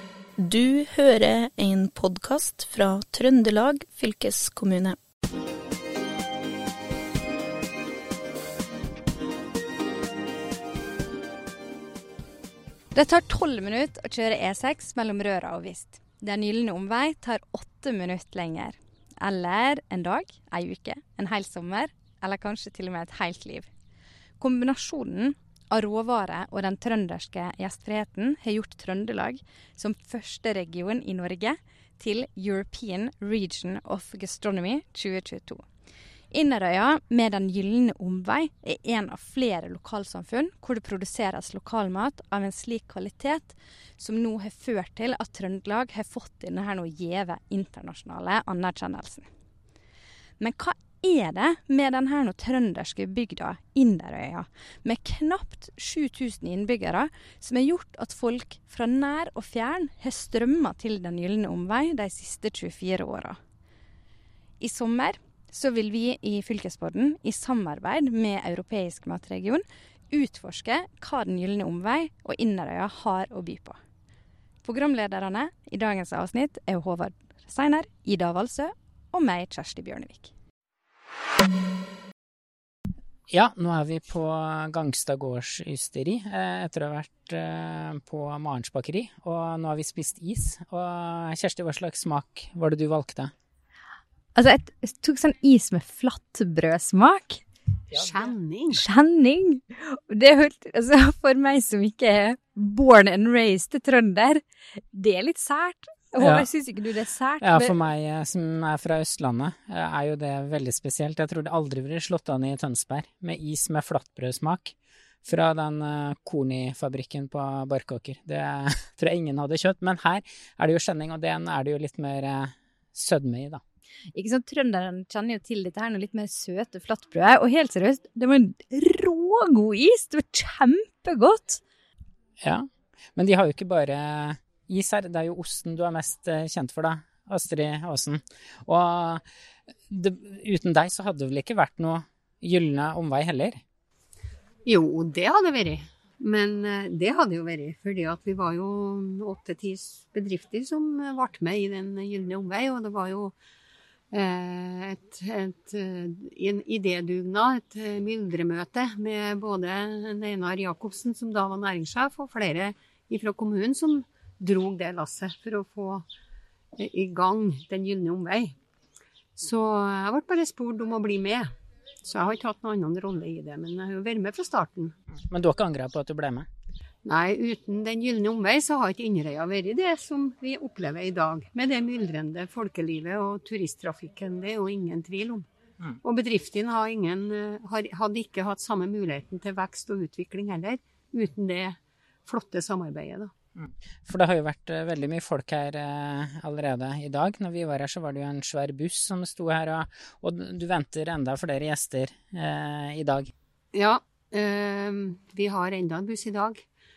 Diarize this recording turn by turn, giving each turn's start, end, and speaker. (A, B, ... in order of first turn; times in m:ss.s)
0:00.4-0:05.0 A
0:12.9-0:23.7 B
0:24.4-0:35.6 B
0:36.3-0:49.3 B
0:50.4-1:03.4 B
1:04.6-1:13.8 B
1:14.6-1:20.3 B
1:23.3-1:33.3 C
1:34.4-1:37.4 B
1:38.0-1:38.8 D
1:38.7-1:44.4 B
1:44.9-1:47.7 B
1:46.2-1:46.5 C
1:47.4-1:54.7 C
1:55.2-2:03.6 C
2:04.2-2:11.6 B
2:12.4-2:19.2 C
2:19.9-2:23.6 C
2:24.6-2:33.4 D
2:34.1-2:46.1 D
2:46.8-2:48.6 D
2:49.4-2:51.5 D
2:52.0-2:55.0 D
2:55.3-2:56.5 C
2:57.0-3:05.5 D
3:06.0-3:13.3 D
3:13.6-3:23.3 C
3:23.7-3:26.6 D